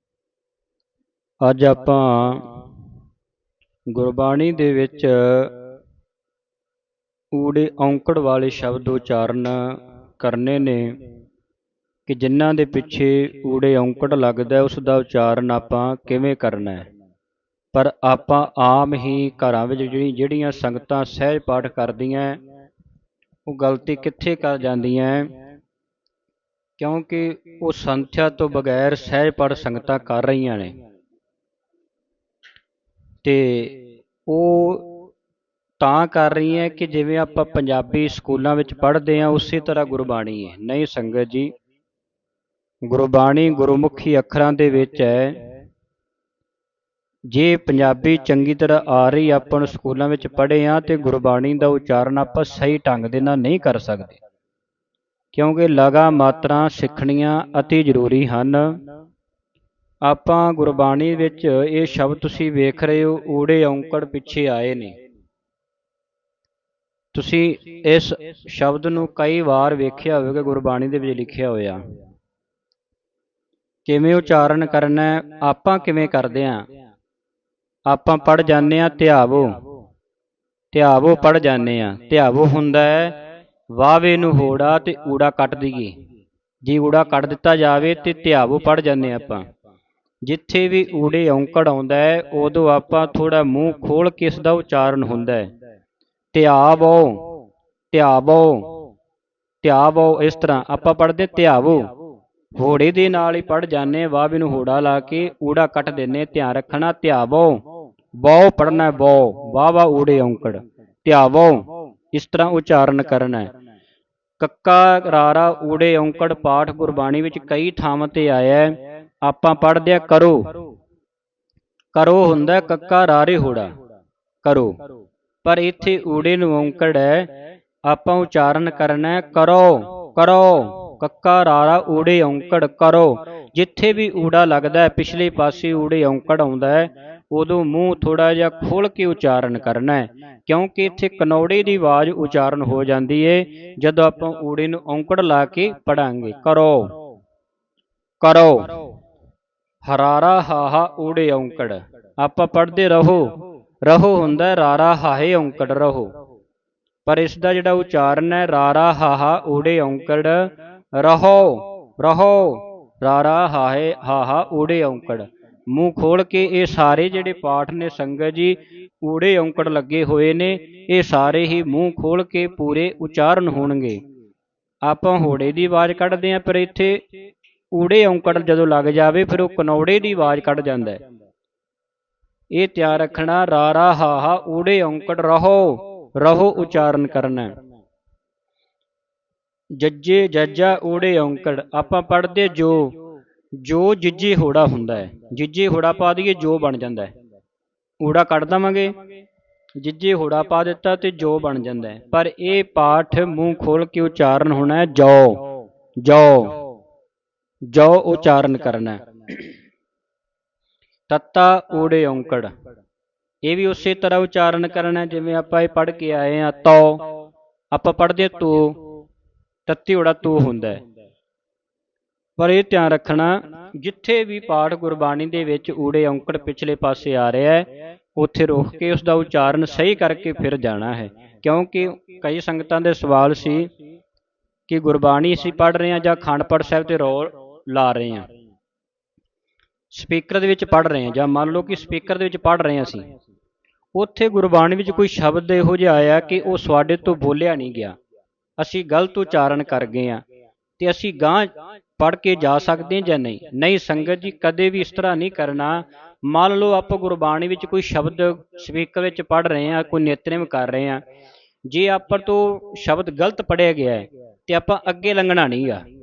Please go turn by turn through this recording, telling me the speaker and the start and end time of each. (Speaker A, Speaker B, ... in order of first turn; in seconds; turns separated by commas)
Speaker A: 1.4-2.5, Speaker A: 3.9-5.5, Speaker A: 7.3-10.9, Speaker A: 12.1-16.9, Speaker A: 17.7-22.4, Speaker A: 23.4-25.3, Speaker A: 26.8-30.7, Speaker A: 33.2-34.9, Speaker A: 35.8-41.5, Speaker A: 42.9-45.4, Speaker A: 47.3-54.2, Speaker A: 55.3-58.8, Speaker A: 60.0-65.0, Speaker A: 67.1-71.9, Speaker A: 73.8-76.7, Speaker A: 77.9-79.6, Speaker A: 80.7-83.2, Speaker A: 83.7-86.0, Speaker A: 86.6-89.5, Speaker A: 90.2-95.5, Speaker A: 96.3-97.2, Speaker A: 97.9-98.7, Speaker A: 99.6-101.9, Speaker A: 102.6-107.6, Speaker A: 108.2-113.5, Speaker A: 114.4-120.5, Speaker A: 121.9-123.7, Speaker A: 124.4-124.8, Speaker A: 125.4-127.3, Speaker A: 127.8-146.9, Speaker A: 148.2-148.8, Speaker A: 149.8-156.1, Speaker A: 157.0-174.0, Speaker A: 174.8-177.0, Speaker A: 177.7-181.0, Speaker A: 182.5-187.5, Speaker A: 189.8-193.0, Speaker A: 193.6-197.1, Speaker A: 198.0-198.9, Speaker A: 199.8-205.4, Speaker A: 206.0-206.6, Speaker A: 207.7-209.5, Speaker A: 211.1-212.5, Speaker A: 213.4-217.0, Speaker A: 217.7-218.8, Speaker A: 219.7-220.8, Speaker A: 222.4-233.7, Speaker A: 234.7-238.3, Speaker A: 239.9-243.1, Speaker A: 243.9-248.0, Speaker A: 248.6-250.2, Speaker A: 250.8-261.0, Speaker A: 261.7-265.9